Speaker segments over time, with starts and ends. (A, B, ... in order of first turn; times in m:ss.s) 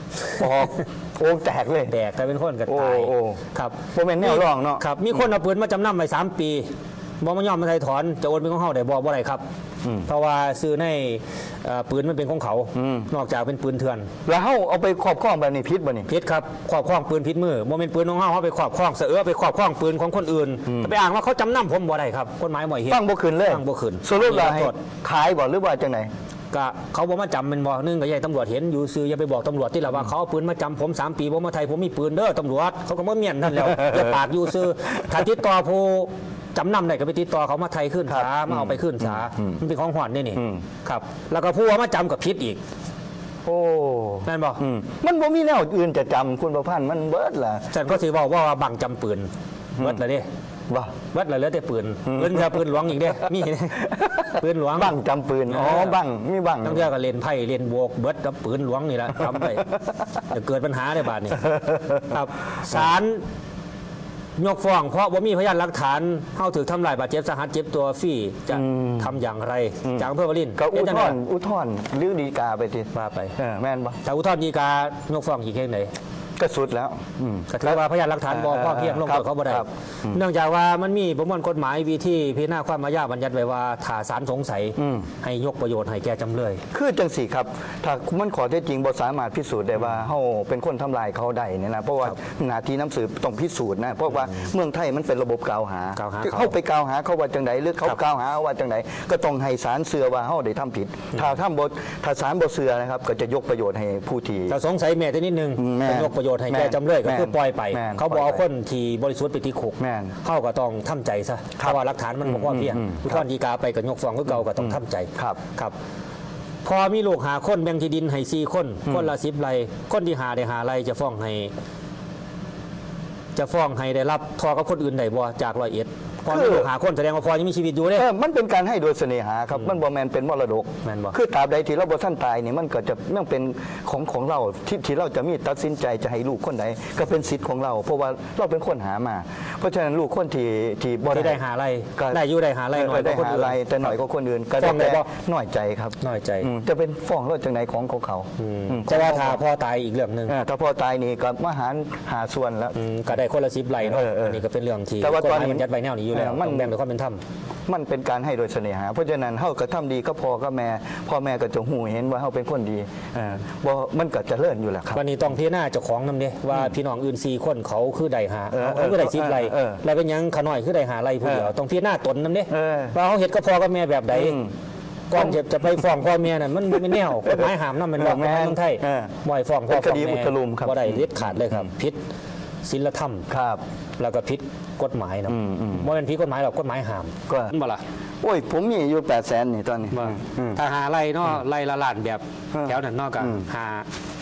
0:00.4-0:01.9 A
0:01.9-0:06.7 B
0:02.7-0:03.4 A
0:03.9-0:04.8 A
0:07.2-0:09.4 B
0:10.0-0:14.1 B
0:12.7-0:13.1 A
0:14.2-0:16.1 A
0:16.1-0:24.8 B
0:20.7-0:20.9 A
0:22.9-0:26.1 A
0:26.5-0:42.6 B
0:33.6-0:34.1 A
0:38.1-0:39.6 A
0:40.4-0:40.6 A
0:43.4-0:47.7 A
0:44.2-0:44.6 B
0:47.7-0:50.3 B
0:50.7-0:50.9 A
0:51.1-0:54.9 B
0:52.0-0:52.5 A
0:53.8-0:56.9 A
0:55.5-0:56.0 B
0:56.6-1:03.2 B
1:01.4-1:02.0 A
1:04.4-1:11.2 B
1:08.5-1:09.1 A
1:09.8-1:14.0 A
1:12.9-1:13.3 B
1:14.0-1:15.9 B
1:16.4-1:20.2 A
1:17.5-1:26.6 B
1:24.8-1:25.1 A
1:26.7-1:44.6 A
1:36.0-1:36.5 B
1:44.5-1:55.7 B
1:45.6-1:48.4 A
1:49.8-1:50.1 A
1:51.6-1:53.2 A
1:54.5-1:55.4 A
1:56.6-2:01.5 B
2:03.4-2:08.0 B
2:06.3-2:06.7 A
2:07.9-2:21.4 A
2:10.8-2:11.1 B
2:21.1-2:23.9 B
2:22.7-2:29.4 A
2:24.6-2:25.1 B
2:26.0-2:26.5 B
2:28.4-2:30.3 B
2:30.3-2:32.7 A
2:32.7-2:37.2 B
2:33.8-2:34.4 A
2:35.0-2:36.7 A
2:37.7-2:45.0 A
2:44.9-2:54.4 B
2:48.5-2:49.8 A
2:51.2-2:51.5 A
2:52.5-2:52.9 A
2:54.1-2:54.5 A
2:55.1-3:02.0 B
2:55.1-2:55.4 A
2:57.2-2:59.1 A
2:59.7-3:01.1 A
3:02.6-3:03.3 B
3:03.3-3:03.6 A
3:04.0-3:07.8 B
3:05.3-3:05.9 A
3:08.2-3:10.6 A
3:09.9-3:13.9 B
3:12.5-3:13.4 A